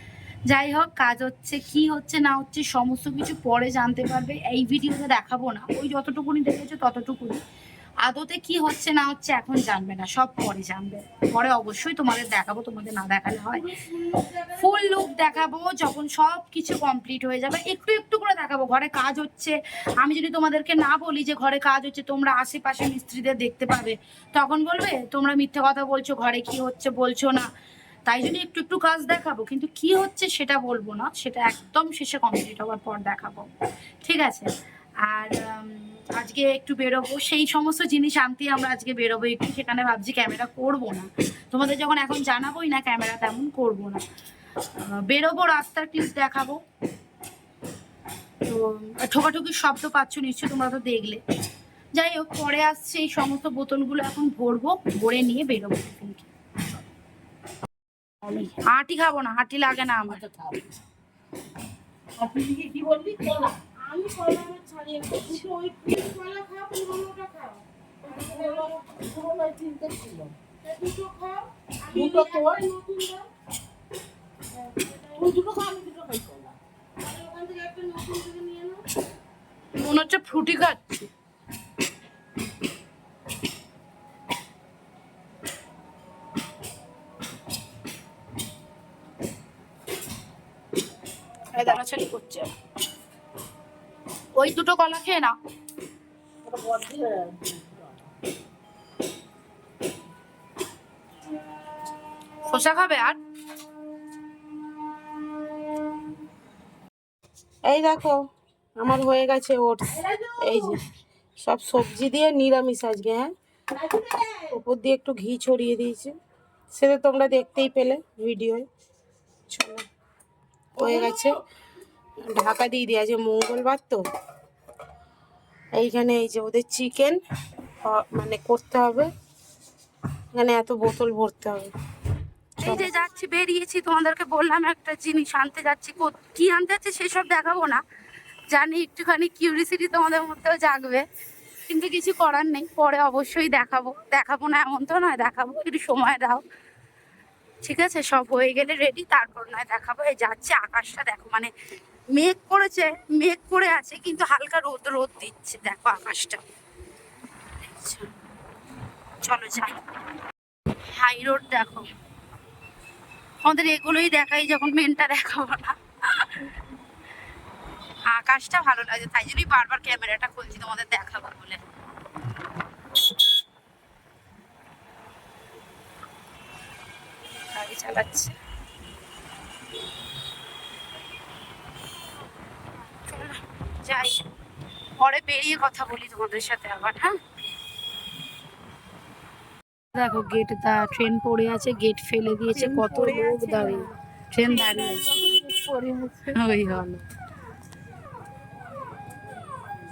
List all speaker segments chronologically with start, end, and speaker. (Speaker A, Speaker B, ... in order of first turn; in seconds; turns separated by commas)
Speaker A: 0.5-7.4, Speaker A: 8.0-13.7, Speaker B: 13.7-15.4, Speaker A: 14.5-27.5, Speaker A: 28.1-33.5, Speaker A: 34.0-34.5, Speaker A: 35.0-44.0, Speaker A: 44.8-46.6, Speaker A: 48.5-51.2, Speaker A: 51.9-56.3, Speaker A: 58.2-60.3, Speaker B: 62.2-63.6, Speaker C: 63.8-68.8, Speaker B: 68.0-70.3, Speaker C: 70.6-73.2, Speaker B: 71.9-72.6, Speaker B: 74.8-76.5, Speaker C: 77.0-78.8, Speaker A: 79.8-81.1, Speaker A: 91.5-92.5, Speaker A: 94.3-95.3, Speaker B: 96.4-97.7, Speaker A: 102.5-103.2, Speaker C: 107.7-108.2, Speaker C: 108.8-110.8, Speaker B: 110.0-110.5, Speaker C: 111.4-113.3, Speaker B: 114.0-114.5, Speaker C: 114.5-116.2, Speaker C: 116.7-118.7, Speaker C: 119.5-119.8, Speaker C: 120.8-121.4, Speaker C: 122.2-124.0, Speaker C: 125.7-127.2, Speaker C: 127.8-129.1, Speaker C: 130.3-131.7, Speaker A: 132.6-137.8, Speaker C: 132.6-132.9, Speaker A: 138.5-141.1, Speaker A: 141.7-146.4, Speaker A: 147.6-151.5, Speaker A: 152.1-156.4, Speaker A: 157.6-158.1, Speaker A: 159.2-159.8, Speaker A: 160.9-161.9, Speaker A: 163.4-166.5, Speaker A: 168.1-171.6, Speaker A: 177.5-178.3, Speaker A: 183.1-184.2, Speaker A: 185.0-187.2, Speaker A: 189.9-195.1, Speaker C: 192.5-193.8, Speaker C: 194.4-196.8, Speaker A: 196.3-197.0